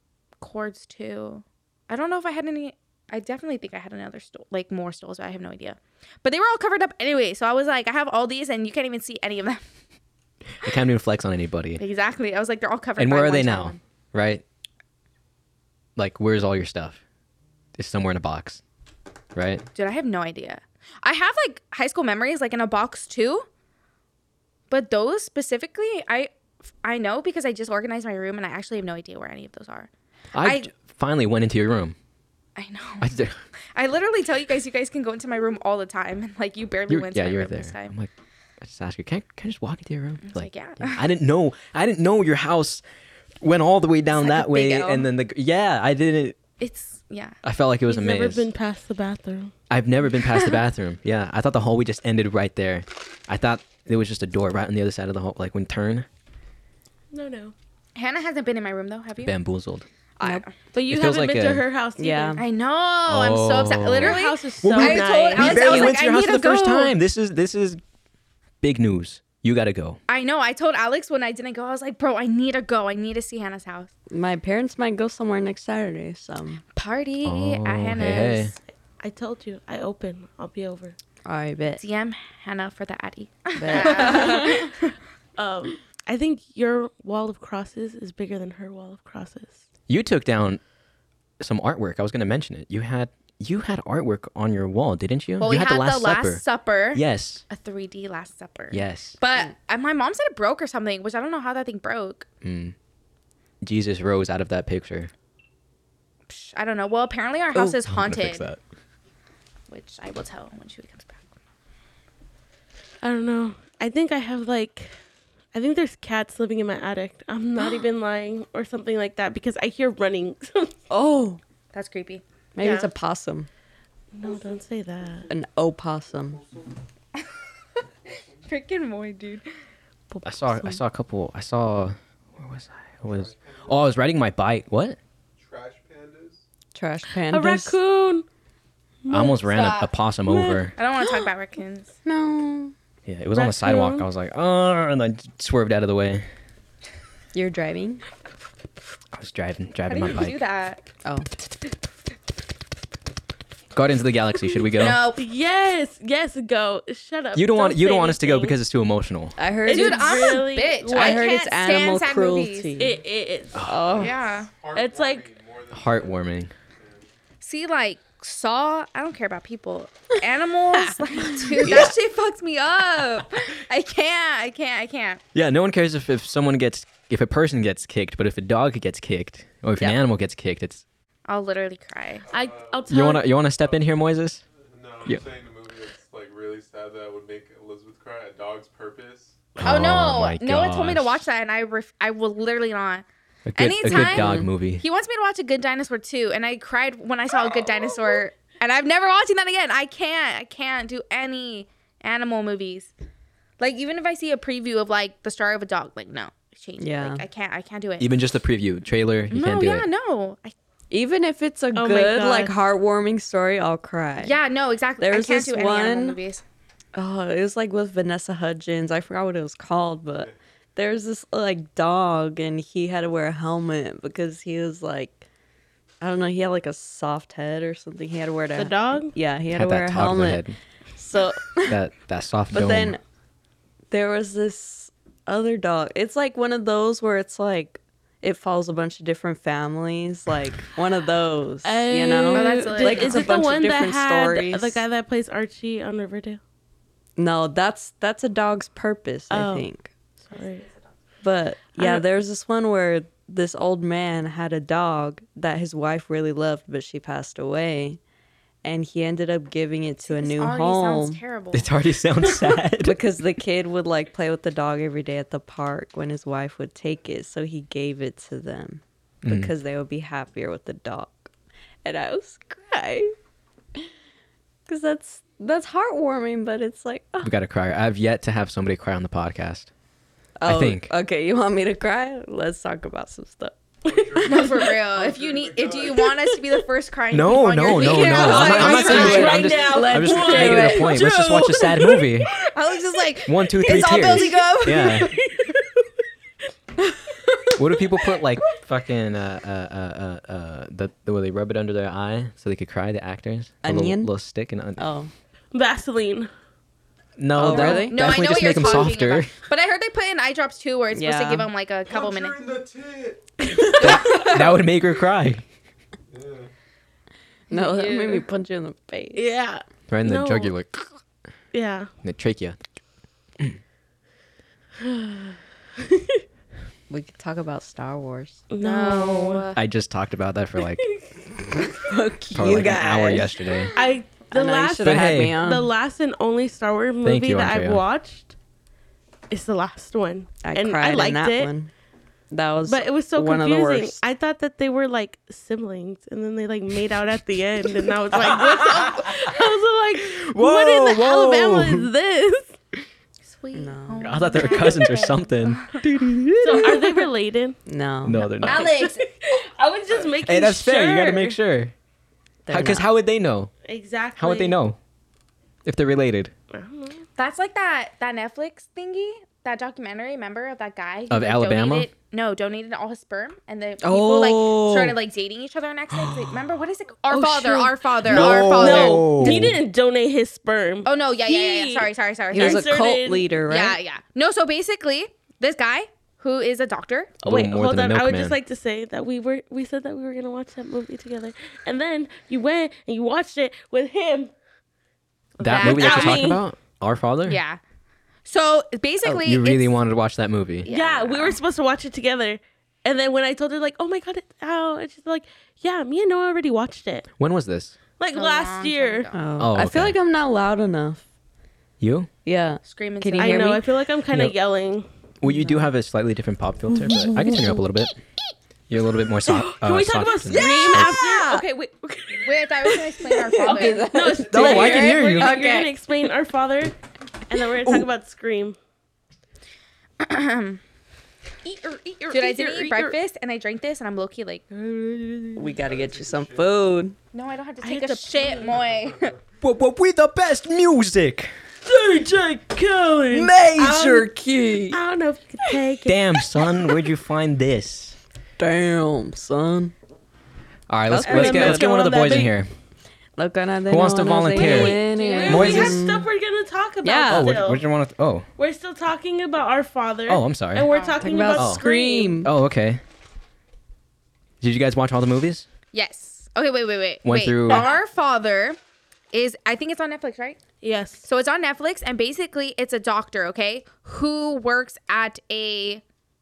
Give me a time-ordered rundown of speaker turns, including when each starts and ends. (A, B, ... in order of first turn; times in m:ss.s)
0:00.4-0:09.6 A
0:10.6-0:11.8 B
0:11.8-0:13.8 A
0:13.0-0:14.4 B
0:16.0-0:17.0 B
0:17.8-0:18.6 B
0:19.3-0:19.6 B
0:19.7-0:23.4 A
0:24.7-0:26.3 A
0:26.8-0:30.7 A
0:30.3-0:32.0 B
0:32.6-0:33.1 A
0:33.0-0:33.4 B
0:33.7-0:37.9 A
0:36.9-0:42.8 B
0:40.2-0:41.0 A
0:43.4-0:46.4 B
0:44.2-0:45.1 A
0:46.6-0:47.4 A
0:47.4-0:48.5 B
0:47.9-0:49.5 C
0:49.7-0:56.0 B
0:57.1-0:57.5 C
0:58.0-0:59.3 A
0:59.2-0:59.9 B
1:00.2-1:00.5 A
1:00.7-1:02.4 C
1:00.9-1:01.6 B
1:02.0-1:02.4 D
1:02.4-1:06.9 A
1:03.1-1:07.8 B
1:04.0-1:06.0 C
1:08.6-1:10.0 B
1:10.1-1:13.9 A
1:14.1-1:16.6 D
1:16.7-1:18.6 A
1:17.2-1:18.5 B
1:19.0-1:21.0 C
1:21.2-1:21.8 D
1:21.8-1:24.9 A
1:23.6-1:24.6 D
1:23.7-1:24.6 C
1:25.4-1:29.6 C
1:29.9-1:30.6 B
1:31.4-1:37.4 B
1:35.4-1:42.3 A
1:38.7-1:39.2 B
1:42.4-1:42.7 B
1:43.6-1:45.1 B
1:46.3-1:48.4 A
1:47.9-1:48.6 B
1:49.7-1:51.2 A
1:53.0-1:54.9 C
1:55.5-2:00.7 C
2:00.9-2:01.4 D
2:01.7-2:02.2 A
2:02.6-2:03.5 D
2:02.6-2:02.9 C
2:04.1-2:05.3 C
2:05.3-2:06.4 D
2:08.4-2:09.5 A
2:10.1-2:10.8 C
2:10.2-2:15.0 B
2:13.0-2:14.0 E
2:15.4-2:16.4 E
2:16.7-2:17.8 D
2:17.3-2:18.2 C
2:19.0-2:19.5 C
2:19.1-2:20.7 B
2:19.5-2:19.9 A
2:20.8-2:21.9 A
2:21.0-2:21.3 D
2:22.0-2:22.7 D
2:23.0-2:26.2 B
2:23.4-2:24.0 C
2:27.3-2:28.0 D
2:29.1-2:30.4 B
2:29.9-2:30.8 A
2:33.7-2:35.0 B
2:34.8-2:35.2 A
2:35.2-2:38.6 C
2:37.3-2:39.4 B
2:39.4-2:43.0 D
2:39.6-2:41.3 C
2:39.6-2:42.8 A
2:42.8-2:43.7 C
2:43.5-2:43.8 B
2:43.6-2:44.1 D
2:44.0-2:44.5 A
2:44.0-2:47.1 E
2:44.7-2:45.3 C
2:45.7-2:46.5 B
2:47.4-2:55.2 A
2:50.7-2:51.9 D
2:55.3-3:00.8 B
3:01.3-3:02.3 A
3:02.2-3:02.9 E
3:02.3-3:03.2 C
3:02.9-3:04.4 B
3:04.6-3:09.5 E
3:09.6-3:11.3 B
3:09.6-3:13.0 A
3:13.4-3:14.8 B
3:13.6-3:22.9 A
3:13.9-3:14.5 D
3:23.6-3:28.1 A
3:26.8-3:27.2 D
3:28.0-3:29.9 B
3:29.3-3:30.5 A
3:30.9-3:34.4 D
3:31.7-3:32.6 C
3:34.2-3:36.4 A
3:35.0-3:36.2 D
3:36.9-3:45.2 D
3:46.0-3:50.4 D
3:48.5-3:49.1 C
3:49.5-3:50.6 B
3:51.0-3:51.8 D
3:51.6-3:53.0 B
3:52.5-3:53.0 D
3:53.9-4:04.8 D
4:01.6-4:06.4 C
4:02.3-4:03.4 A
4:07.2-4:09.9 D
4:09.3-4:09.7 C
4:10.3-4:10.7 C
4:11.2-4:18.0 D
4:11.7-4:12.0 C
4:18.6-4:21.2 D
4:20.1-4:21.7 A
4:21.5-4:23.0 B
4:22.8-4:31.3 D
4:29.2-4:29.5 B
4:31.8-4:33.1 D
4:34.7-4:37.3 D
4:37.2-4:39.7 B
4:40.4-4:43.6 D
4:40.4-4:40.9 B
4:43.9-4:46.2 E
4:43.9-4:44.7 C
4:44.2-4:49.4 A
4:47.1-4:52.3 B
4:47.9-4:52.0 D
4:47.9-4:51.4 C
4:52.6-4:55.0 A
4:53.3-4:55.1 B
4:53.6-4:55.0 D
4:54.9-4:55.5 C
4:57.6-5:04.8 B
5:03.6-5:04.1 D
5:04.8-5:05.1 D
5:05.5-5:06.3 C
5:07.2-5:09.3 B
5:07.3-5:08.8 D
5:07.5-5:12.5 A
5:10.9-5:11.5 D
5:11.8-5:13.3 E
5:13.8-5:15.4 B
5:14.0-5:14.6 A
5:16.1-5:16.5 E
5:17.5-5:18.2 A
5:17.5-5:19.3 D
5:19.1-5:20.5 C
5:19.9-5:20.8 B
5:21.5-5:21.9 C
5:22.0-5:22.6 B
5:24.8-5:26.2 C
5:26.9-5:28.4 D
5:28.5-5:29.4 C
5:28.6-5:29.6 A
5:29.5-5:30.8 B
5:31.6-5:33.5 D
5:32.3-5:33.7 B
5:33.7-5:38.3 C
5:34.2-5:35.7 D
5:34.8-5:35.4 B
5:37.0-5:37.8 B
5:39.3-5:41.5 C
5:40.4-5:41.7 D
5:42.3-5:44.0 D
5:42.6-5:52.6 C
5:48.2-5:48.9 B
5:50.1-5:51.9 B
5:53.2-5:55.8 A
5:53.5-5:54.3 D
5:54.0-5:57.0 B
5:56.4-5:57.6 C
5:57.6-5:58.7 D
5:58.0-5:58.7 B
5:58.4-5:59.0 A
5:58.8-6:01.4 C
6:00.2-6:01.7 B
6:02.4-6:02.9 D
6:02.5-6:03.5 B
6:03.6-6:04.6 C
6:04.2-6:04.8 B
6:05.6-6:06.3 B
6:06.5-6:07.0 C
6:07.2-6:19.4 A
6:11.1-6:11.9 B
6:13.8-6:14.9 B
6:17.1-6:17.4 C
6:18.0-6:19.6 B
6:18.1-6:23.3 C
6:20.8-6:22.7 A
6:22.3-6:23.8 D
6:23.5-6:27.1 A
6:27.2-6:28.4 B
6:27.2-6:34.3 C
6:35.4-6:36.4 A
6:35.4-6:37.4 B
6:35.5-6:36.4 C
6:37.2-6:37.6 A
6:38.2-6:39.7 A
6:39.0-6:40.7 B
6:40.6-6:41.4 A
6:40.7-6:47.1 C
6:47.2-6:47.7 B
6:48.0-6:49.1 C
6:48.1-6:49.6 A
6:49.1-6:51.0 D
6:49.4-6:50.0 B
6:51.8-6:52.1 B
6:52.2-6:53.7 D
6:52.6-6:53.6 A
6:53.2-6:54.8 C
6:55.2-6:58.0 B
6:55.2-6:55.7 D
6:56.7-6:57.6 D
6:58.7-7:01.0 B
6:59.2-7:02.3 C
7:00.3-7:01.4 D
7:02.2-7:03.9 A
7:03.1-7:05.8 D
7:03.4-7:06.7 C
7:04.3-7:05.4 B
7:07.3-7:08.6 C
7:07.6-7:07.9 D
7:10.0-7:10.6 A
7:11.4-7:13.0 C
7:12.1-7:14.4 A
7:14.8-7:15.5 C
7:15.4-7:17.0 D
7:15.6-7:16.7 E
7:17.1-7:19.1 A
7:17.6-7:18.6 C
7:18.3-7:19.2 E
7:19.4-7:21.3 B
7:21.7-7:24.1 C
7:23.1-7:24.8 D
7:23.1-7:23.8 B
7:24.7-7:26.2 C
7:25.8-7:28.0 B
7:28.4-7:29.7 D
7:30.7-7:32.5 B
7:30.9-7:32.3 D
7:31.0-7:32.3 C
7:33.2-7:36.1 D
7:33.7-7:35.8 B
7:34.3-7:37.6 C
7:35.0-7:35.5 A
7:36.8-7:37.4 D
7:37.1-7:38.2 B
7:38.4-7:42.2 C
7:40.1-7:40.7 B
7:40.7-7:41.0 A
7:40.9-7:42.3 D
7:41.3-7:41.6 B
7:42.2-7:42.8 B
7:44.4-7:45.5 B
7:45.7-7:48.6 A
7:47.0-7:47.7 B
7:49.1-7:50.4 A
7:50.6-7:51.0 C
7:51.0-7:55.8 A